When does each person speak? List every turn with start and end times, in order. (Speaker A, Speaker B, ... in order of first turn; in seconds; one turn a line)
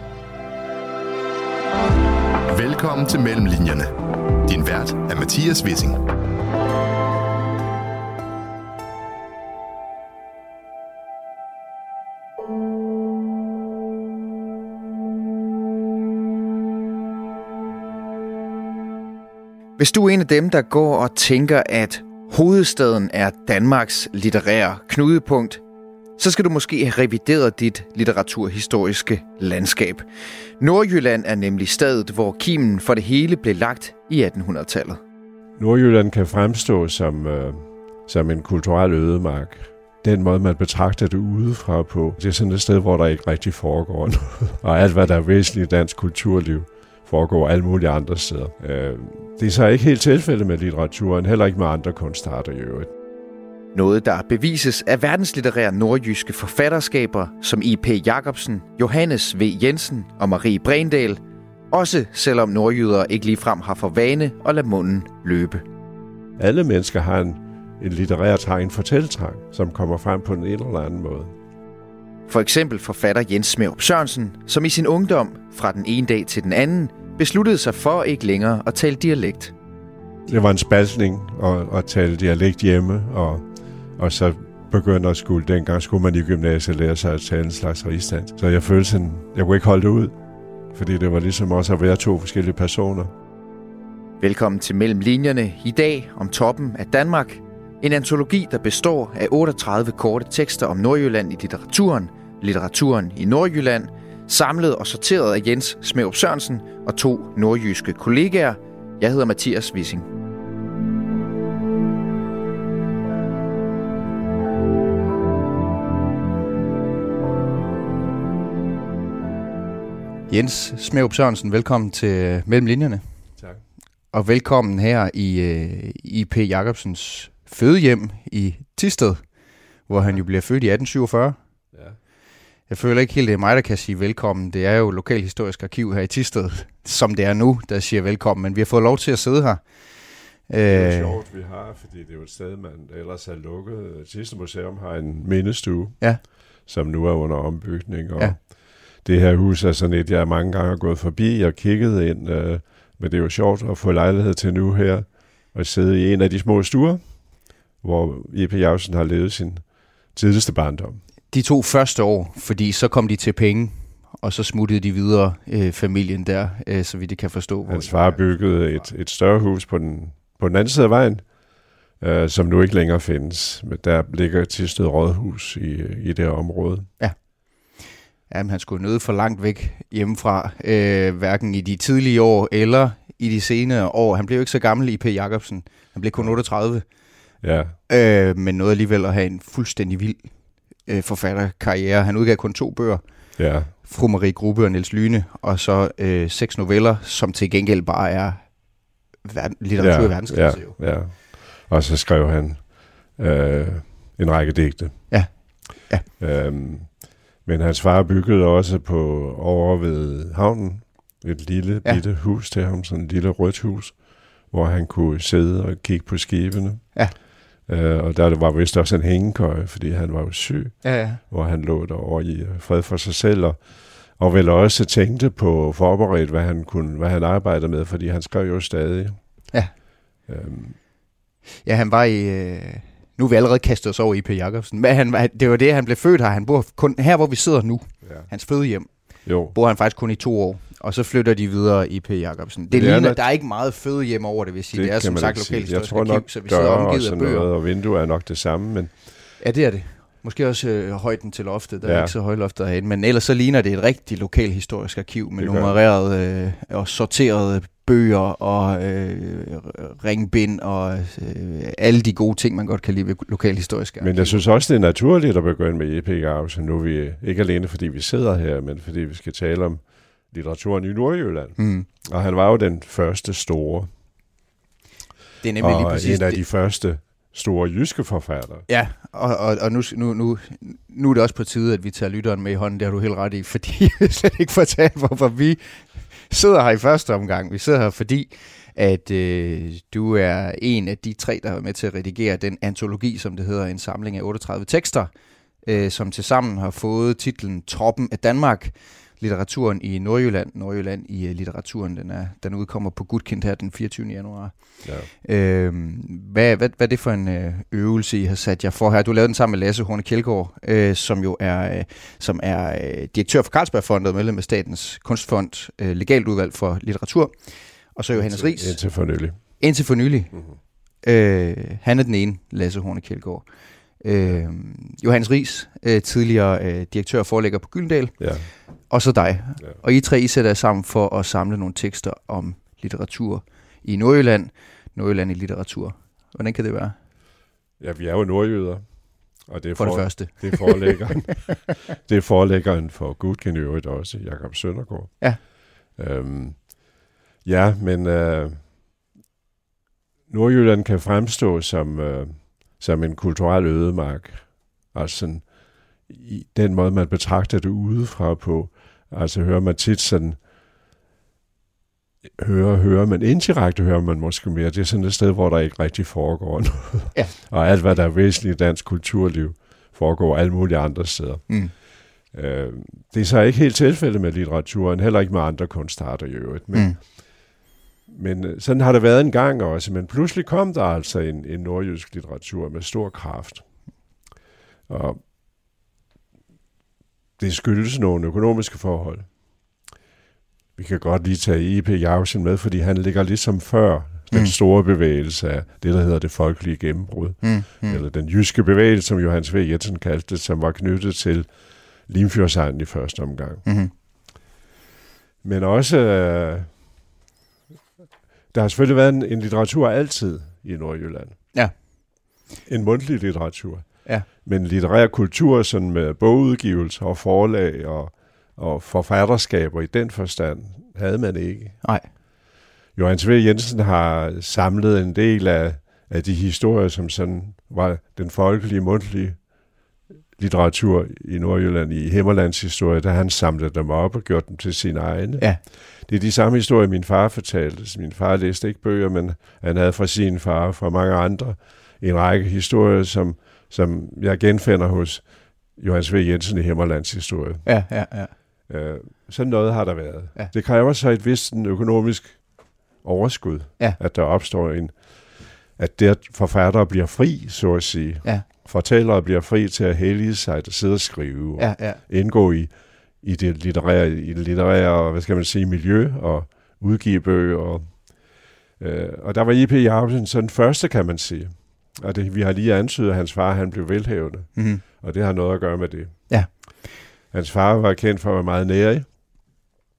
Speaker A: 2.5-6.1
Speaker B: 19.8-25.6
Speaker B: 26.2-30.0
Speaker B: 30.6-35.0
Speaker C: 35.6-52.9
Speaker B: 53.8-61.2
Speaker B: 61.7-65.6
Speaker C: 66.4-71.3
Speaker B: 72.3-79.5
Speaker C: 80.3-90.2
Speaker C: 90.7-93.1
Speaker B: 94.2-110.1
Speaker B: 120.3-123.0
Speaker B: 124.1-129.2
Speaker B: 129.9-131.4
Speaker B: 132.7-139.7
Speaker B: 140.4-141.2
Speaker C: 140.7-157.3
Speaker C: 157.8-161.0
Speaker B: 161.3-168.2
Speaker C: 167.7-171.4
Speaker C: 172.0-176.9
Speaker B: 178.3-186.8
Speaker C: 187.4-187.8
Speaker B: 187.9-190.3
Speaker B: 190.8-193.1
Speaker C: 193.4-193.7
Speaker B: 193.7-198.6
Speaker B: 199.2-200.8
Speaker C: 199.8-205.4
Speaker B: 205.1-206.1
Speaker C: 206.2-229.5
Speaker B: 220.8-221.2
Speaker C: 230.3-230.8
Speaker B: 231.6-247.5
Speaker C: 239.2-239.6
Speaker C: 242.7-243.2
Speaker C: 244.7-249.2
Speaker B: 249.4-264.4
Speaker C: 251.8-252.1
Speaker C: 255.4-255.8
Speaker C: 264.0-273.9
Speaker B: 271.6-271.9
Speaker B: 275.4-276.4
Speaker C: 275.6-278.7
Speaker B: 278.7-295.1
Speaker B: 295.6-318.9
Speaker C: 304.8-305.1
Speaker C: 318.1-319.6
Speaker B: 319.6-320.4
Speaker B: 321.0-323.5
Speaker B: 324.0-328.2
Speaker C: 328.2-328.5
Speaker B: 328.9-336.9
Speaker C: 337.8-348.6
Speaker B: 339.8-341.1
Speaker C: 350.3-360.4
Speaker C: 362.4-377.5
Speaker B: 376.7-377.0
Speaker C: 378.1-383.7
Speaker C: 384.9-385.2
Speaker C: 387.4-389.3
Speaker C: 390.8-403.7
Speaker B: 397.4-398.0
Speaker B: 403.6-403.9
Speaker C: 405.4-406.8
Speaker C: 408.5-411.4
Speaker C: 412.7-421.8
Speaker C: 422.9-429.6
Speaker C: 430.4-447.8
Speaker B: 447.6-448.3
Speaker C: 448.7-476.7
Speaker B: 461.6-462.0
Speaker B: 474.6-474.8
Speaker C: 477.3-479.2